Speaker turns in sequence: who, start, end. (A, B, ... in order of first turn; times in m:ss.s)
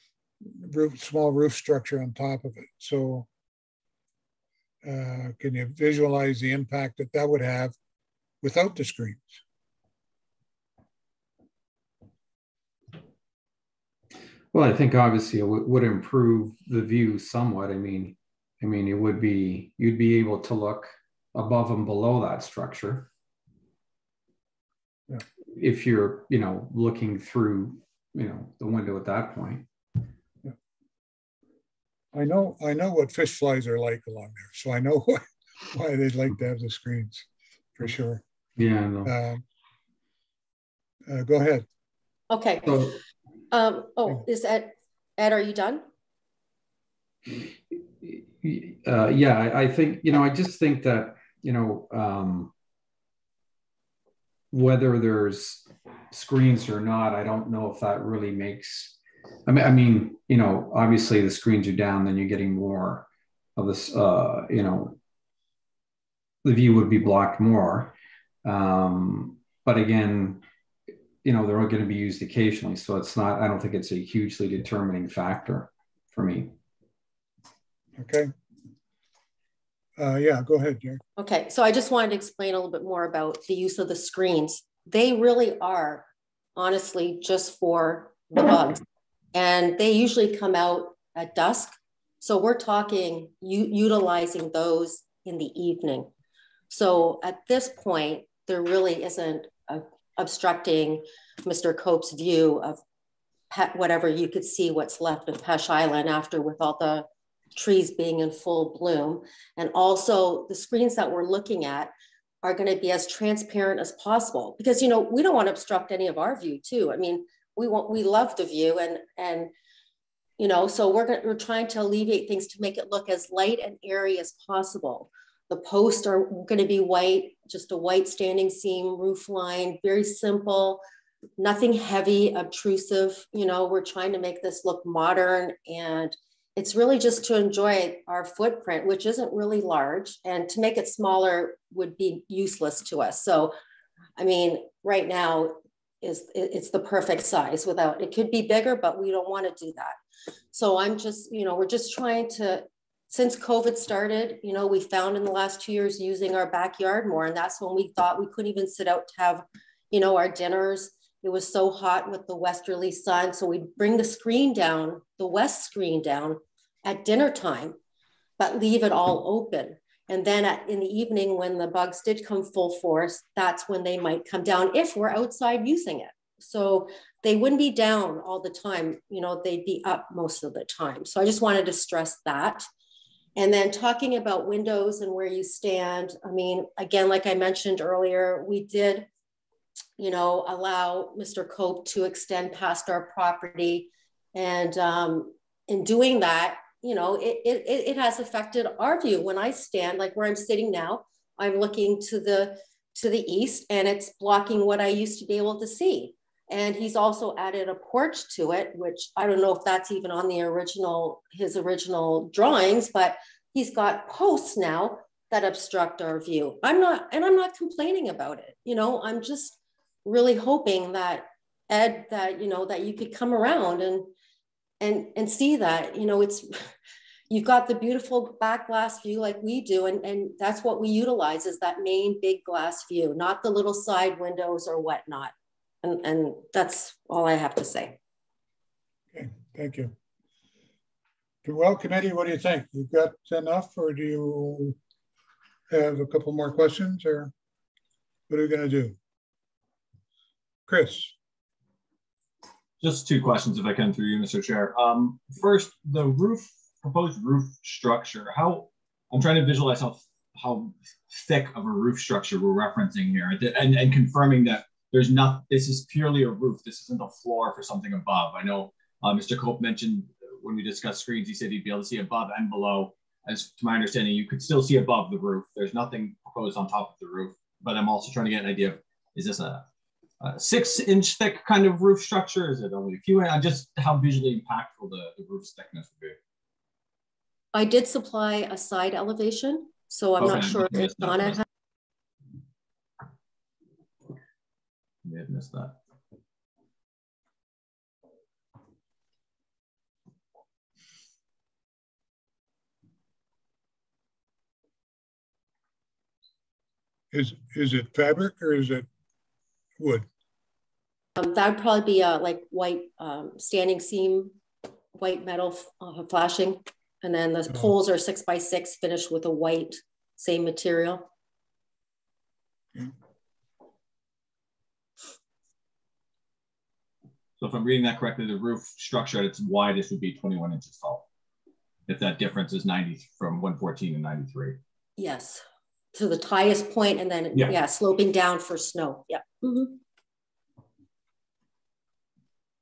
0:00.4-0:03.3 A
0:04.8-0:07.7 A
0:08.4-0:09.4 A
0:14.5-0:23.1 B
0:25.5-0:29.7 B
0:32.1-0:38.2 A
0:38.6-0:39.1 B
0:39.0-0:39.4 A
0:41.1-0:41.6 A
0:42.3-0:43.0 C
0:42.7-0:43.0 B
0:43.5-0:45.8 C
0:48.0-0:52.5 B
0:54.5-1:05.0 B
1:06.4-1:07.9 B
1:08.4-1:10.4 B
1:11.2-1:16.5 B
1:18.0-1:18.3 A
1:20.0-1:21.0 A
1:21.2-1:36.1 C
1:36.7-1:42.8 C
1:43.5-1:51.9 C
1:52.4-1:59.5 C
2:00.4-2:10.8 C
2:11.4-2:23.5 C
2:24.2-2:30.0 C
2:30.5-2:47.8 C
2:48.4-3:02.6 C
3:03.4-3:09.1 C
3:10.0-3:44.1 C
3:44.8-3:46.5 C
3:47.3-3:55.3 C
3:55.8-3:58.0 C
3:59.1-3:59.9 A
4:01.4-4:04.8 A
4:05.7-4:07.3 A
4:08.3-4:09.0 A
4:10.7-4:11.1 A
4:12.8-4:39.6 D
4:40.2-4:46.2 D
4:47.5-4:51.4 C
4:50.2-4:51.4 D
4:55.0-4:55.8 D
5:07.1-5:08.9 A
5:09.8-5:10.1 A
5:11.2-5:14.4 C
5:14.9-5:21.1 C
5:27.4-5:31.0 D
5:31.9-5:34.6 D
5:35.0-5:35.4 C
5:35.9-5:39.8 C
5:37.3-5:37.6 D